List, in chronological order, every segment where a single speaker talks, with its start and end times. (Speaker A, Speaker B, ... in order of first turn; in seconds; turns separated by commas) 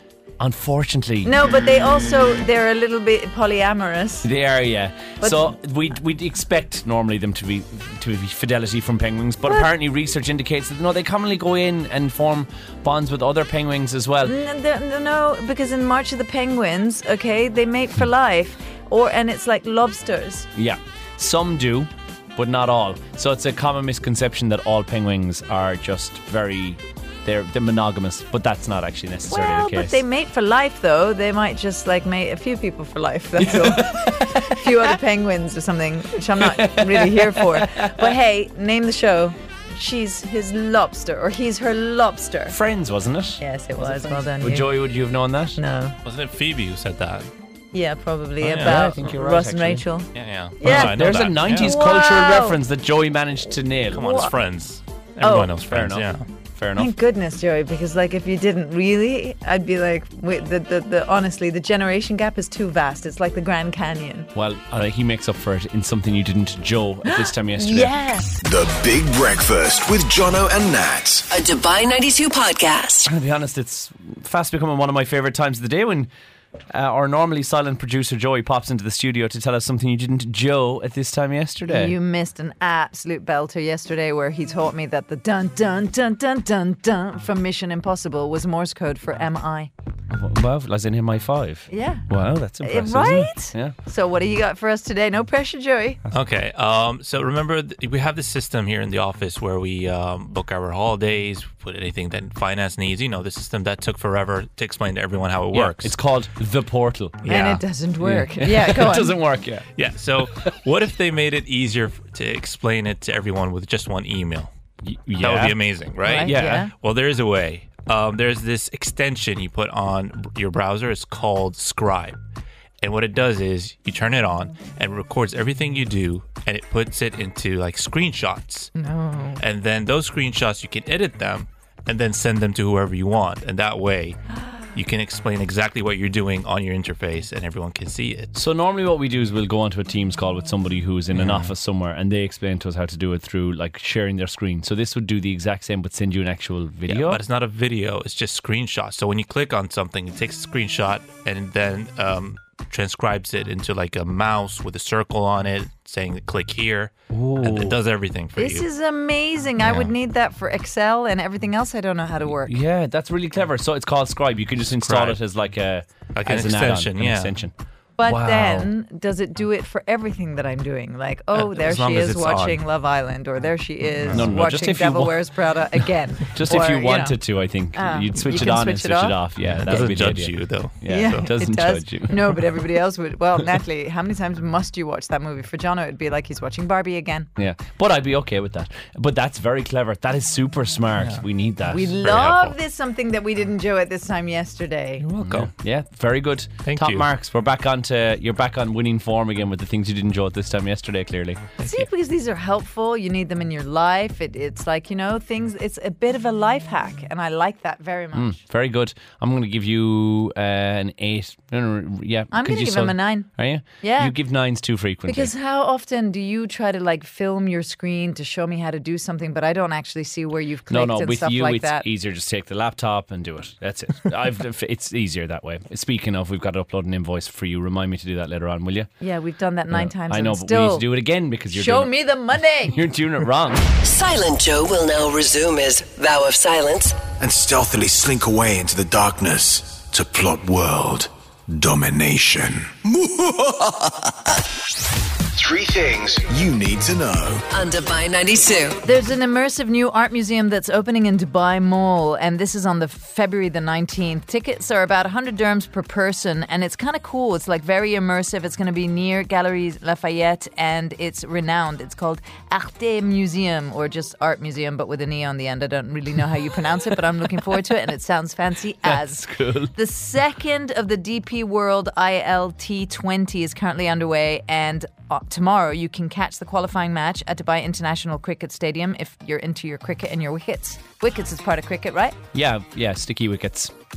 Speaker A: 0.4-1.3, Speaker B: 1.2-4.3, Speaker A: 4.2-14.4, Speaker B: 5.2-5.5, Speaker B: 14.2-20.5, Speaker A: 20.5-30.0, Speaker B: 29.3-42.5, Speaker A: 33.4-34.7, Speaker A: 36.3-38.1, Speaker A: 42.5-45.6, Speaker B: 43.4-44.7, Speaker B: 45.5-45.9, Speaker C: 46.0-47.3, Speaker B: 47.7-50.1, Speaker C: 48.4-49.1, Speaker A: 48.6-49.9, Speaker C: 50.1-51.7, Speaker B: 50.6-52.6, Speaker A: 50.6-54.0, Speaker C: 53.9-56.2, Speaker B: 54.0-54.3, Speaker B: 55.2-55.5, Speaker A: 55.6-56.9, Speaker B: 56.8-64.3, Speaker A: 64.3-67.9, Speaker B: 67.0-68.3, Speaker D: 68.4-71.2, Speaker E: 71.3-73.1, Speaker A: 73.0-76.1, Speaker A: 76.7-81.9, Speaker B: 81.7-89.7, Speaker A: 90.1-93.7, Speaker B: 91.7-92.0, Speaker B: 92.6-96.0, Speaker C: 96.1-105.9, Speaker A: 105.5-107.4, Speaker C: 107.2-107.6, Speaker B: 107.3-109.2, Speaker A: 108.0-109.7, Speaker C: 109.8-114.5, Speaker A: 114.8-115.6, Speaker C: 115.2-122.2, Speaker B: 116.0-116.7, Speaker A: 116.2-116.7, Speaker C: 122.8-128.7, Speaker B: 128.8-129.4, Speaker C: 129.4-134.2, Speaker C: 134.7-138.3, Speaker A: 138.3-147.2, Speaker C: 141.1-141.5, Speaker C: 146.9-158.7, Speaker A: 157.1-157.8, Speaker B: 158.3-162.6, Speaker C: 159.6-159.9, Speaker A: 162.4-167.5, Speaker C: 164.8-165.2, Speaker C: 166.1-167.3, Speaker B: 168.0-177.2, Speaker A: 168.1-168.7, Speaker C: 171.3-172.6, Speaker C: 174.0-174.3, Speaker A: 174.1-175.2, Speaker A: 176.3-182.6, Speaker B: 177.7-179.2, Speaker C: 179.4-181.3, Speaker B: 180.9-187.3, Speaker A: 187.4-191.9, Speaker B: 191.7-195.0, Speaker C: 192.0-192.6, Speaker C: 195.0-195.5, Speaker A: 195.2-201.5, Speaker C: 196.6-197.1, Speaker C: 201.6-201.8, Speaker B: 201.6-208.4, Speaker A: 208.1-215.3, Speaker B: 212.3-213.3, Speaker B: 213.8-214.1, Speaker B: 215.1-221.8, Speaker A: 220.7-228.9, Speaker B: 229.0-230.9, Speaker A: 229.7-232.0, Speaker B: 231.5-232.8, Speaker A: 232.6-233.7, Speaker E: 233.8-237.0, Speaker D: 237.2-244.1, Speaker D: 245.3-247.4, Speaker E: 247.5-248.8, Speaker B: 248.8-282.2, Speaker A: 268.8-269.7, Speaker A: 282.3-283.7